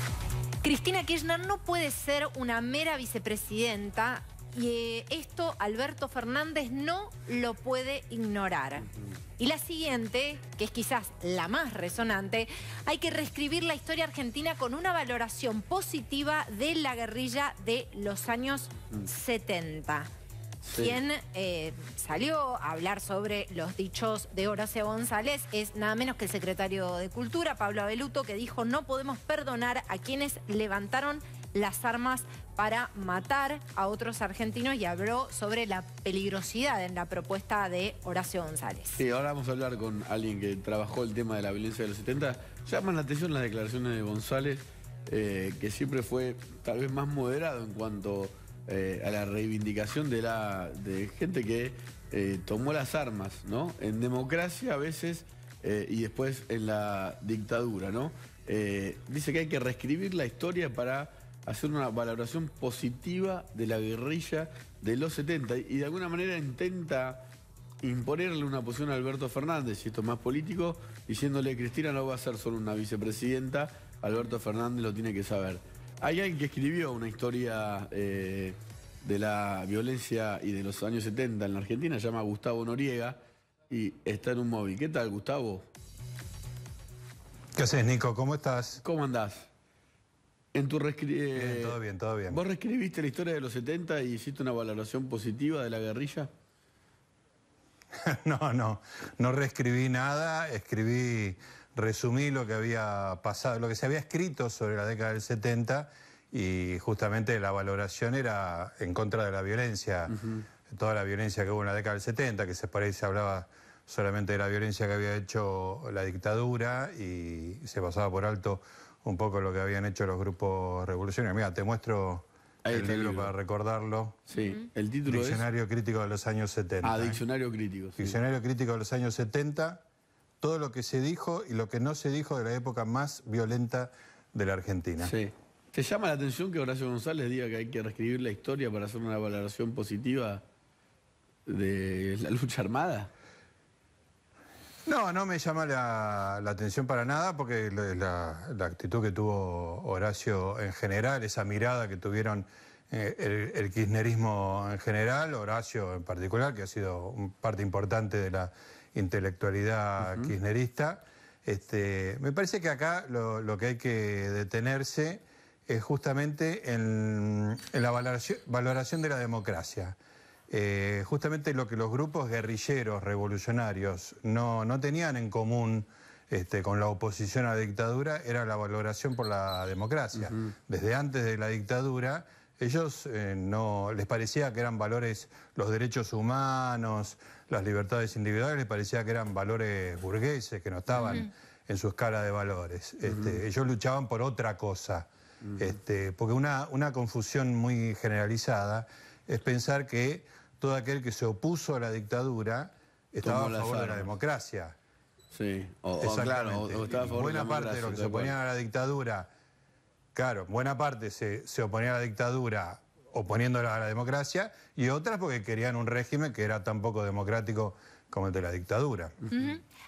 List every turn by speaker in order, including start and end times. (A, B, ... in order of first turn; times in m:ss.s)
0:00.6-0:20.1 A
0:20.6-0:21.0 B
0:20.7-0:39.0 A
0:39.0-1:07.2 B
1:07.8-1:25.7 B
1:27.6-1:28.8 C
1:28.8-1:29.5 B
1:30.5-1:31.8 B
1:31.4-1:32.4 C
1:32.3-1:36.3 B
1:38.0-2:04.2 C
2:02.6-2:03.3 B
2:04.3-2:05.4 B
2:05.1-2:07.2 C
2:06.8-2:08.2 B
2:08.0-2:09.8 C
2:10.4-2:15.1 C
2:15.0-2:20.4 B
2:21.5-2:23.1 B
2:24.9-2:50.0 C
2:50.5-3:24.8 C
3:13.1-3:13.3 B
3:23.2-3:24.1 B
3:25.3-3:28.3 B
3:26.0-3:29.3 C
3:30.2-3:39.2 C
3:39.3-3:39.6 A